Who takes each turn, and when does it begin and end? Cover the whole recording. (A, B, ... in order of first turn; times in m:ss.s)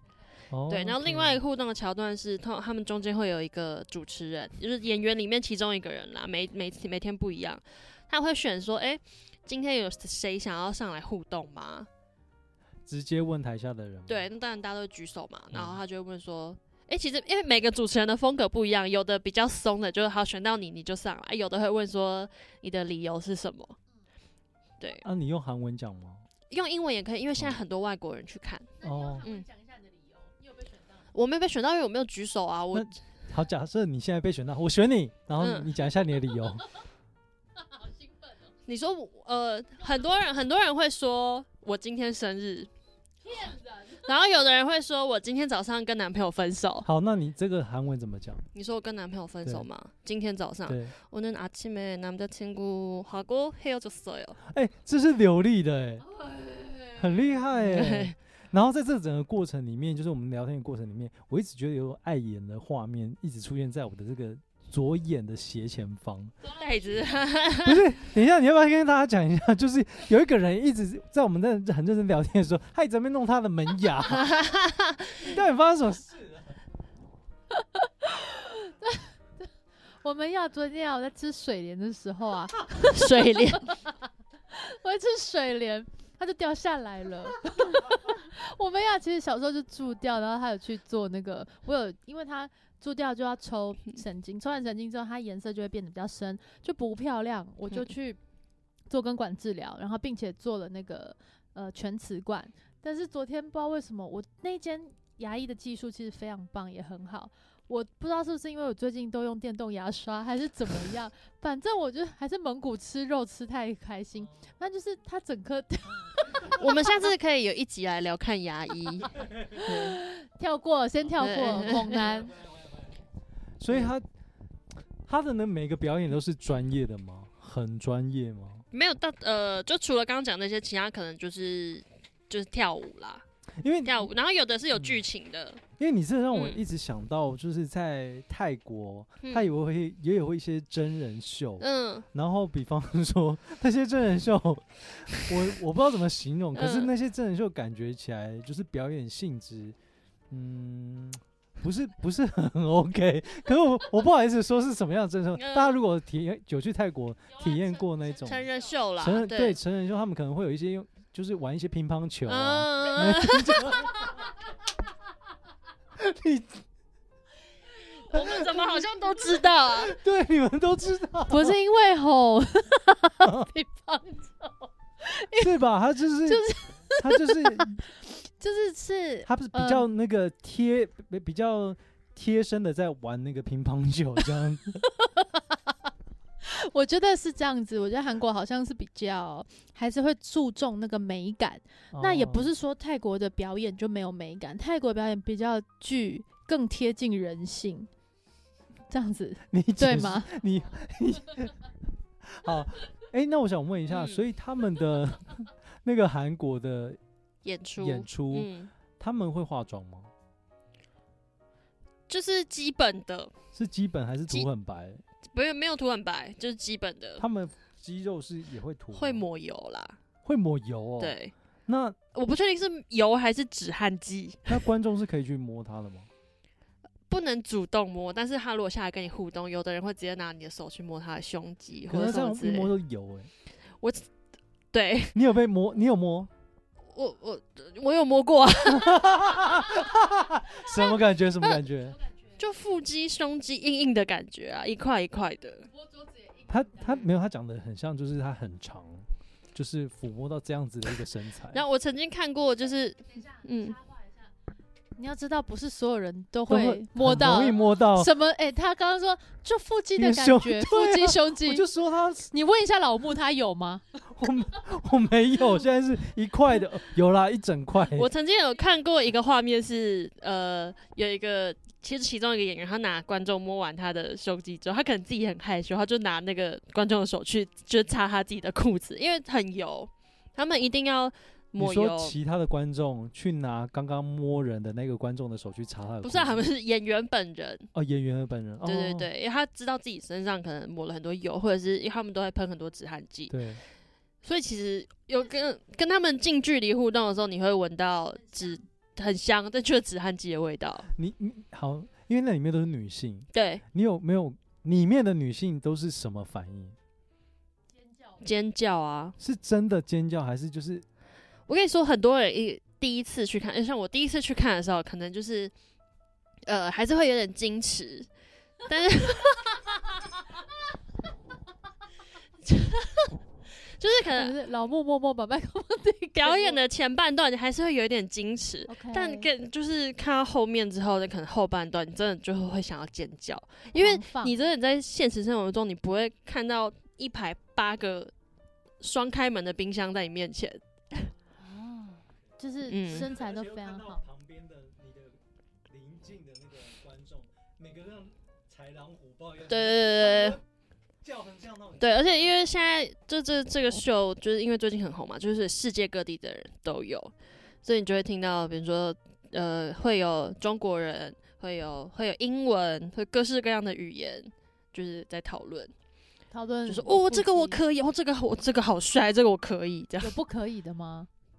0:00.5-0:01.4 A
0:00.7-0:11.9 B
0:12.8-0:14.3 A
0:14.1-0:23.8 B
0:15.5-0:15.8 A
0:25.0-0:26.2 A
0:26.5-0:29.5 B
0:27.4-0:27.6 A
0:28.8-0:31.0 C
0:28.8-0:29.2 A
0:31.1-0:32.9 B
0:32.7-0:36.7 A
0:35.4-0:35.7 B
0:37.7-0:38.3 C
0:38.7-0:42.7 B
0:43.2-0:44.0 C
0:43.3-0:46.9 B
0:46.8-0:48.5 A
0:48.5-0:54.4 B
0:50.6-0:50.9 A
0:54.5-0:56.1 A
0:57.0-1:06.4 A
0:57.6-0:58.1 B
1:06.5-1:07.9 B
1:07.6-1:14.3 A
1:14.1-1:15.4 B
1:15.2-1:16.6 A
1:17.5-1:19.1 C
1:20.0-1:24.0 C
1:22.8-1:23.7 B
1:24.5-1:38.2 C
1:38.9-1:56.8 C
1:56.5-2:00.0 B
1:59.5-2:02.4 C
2:01.2-2:02.1 B
2:01.7-2:03.0 A
2:03.6-2:04.0 A
2:05.0-2:08.6 A
2:08.7-2:13.2 B
2:13.6-2:14.1 A
2:13.8-2:15.6 B
2:14.7-2:15.0 A
2:15.8-2:29.8 A
2:16.3-2:16.6 B
2:19.2-2:19.5 B
2:21.6-2:22.0 B
2:26.5-2:26.9 B
2:30.3-2:44.3 A
2:35.4-2:35.8 B
2:38.2-2:39.6 B
2:42.3-2:44.1 B
2:45.9-2:46.6 A
2:48.0-2:50.0 B
2:48.1-2:48.6 A
2:49.7-2:51.6 A
2:51.3-2:55.6 C
2:53.2-2:53.5 A
2:55.4-2:57.8 A
2:56.2-2:59.9 C
2:59.2-3:04.8 A
3:04.8-3:05.6 C
3:06.4-3:17.9 C
3:11.9-3:12.5 A
3:18.9-3:20.3 C
3:19.5-3:21.7 A
3:22.2-3:27.0 A
3:23.9-3:24.2 B
3:27.4-3:28.7 B
3:27.8-3:30.1 A
3:32.1-3:33.3 B
3:33.5-3:35.0 A
3:35.3-3:37.2 B
3:37.2-3:39.2 A
3:38.9-3:40.0 B
3:40.2-3:42.0 A
3:41.0-3:41.3 B
3:42.1-3:44.6 B
3:44.5-3:46.1 A
3:47.1-3:52.7 B
3:51.9-3:53.3 A
3:53.8-3:54.1 B
3:54.7-3:55.2 B
3:55.1-3:56.3 A
3:56.9-3:59.8 B
3:58.7-4:02.0 A
4:00.7-4:01.6 B
4:02.4-4:05.7 B
4:05.9-4:06.4 C
4:06.4-4:11.6 A
4:11.5-4:13.8 B
4:15.0-4:21.6 C
4:16.5-4:18.1 A
4:20.0-4:22.3 A
4:22.3-4:23.8 C
4:24.0-4:28.1 A
4:27.9-4:42.2 B
4:41.6-4:46.5 A
4:46.0-4:47.7 B
4:47.7-4:49.1 A
4:48.6-4:53.5 B
4:53.3-4:53.6 A
4:54.2-5:00.9 B
5:00.9-5:06.8 A
5:03.3-5:03.6 B
5:08.2-5:09.2 B
5:09.2-5:10.8 A
5:11.5-5:15.5 B
5:16.4-5:18.1 B
5:18.6-5:20.0 B
5:22.5-5:23.1 B
5:23.7-5:24.3 B
5:24.1-5:26.6 C
5:26.2-5:38.1 B
5:28.7-5:29.3 C
5:33.7-5:34.4 C
5:38.8-5:41.1 B
5:41.4-5:44.0 C
5:42.7-5:43.1 B
5:42.9-5:50.4 A
5:49.5-5:50.4 B
5:51.0-5:52.4 A
5:51.8-5:57.1 B
5:57.6-6:05.7 B
6:06.3-6:07.6 C
6:06.6-6:10.1 B
6:10.0-6:11.1 C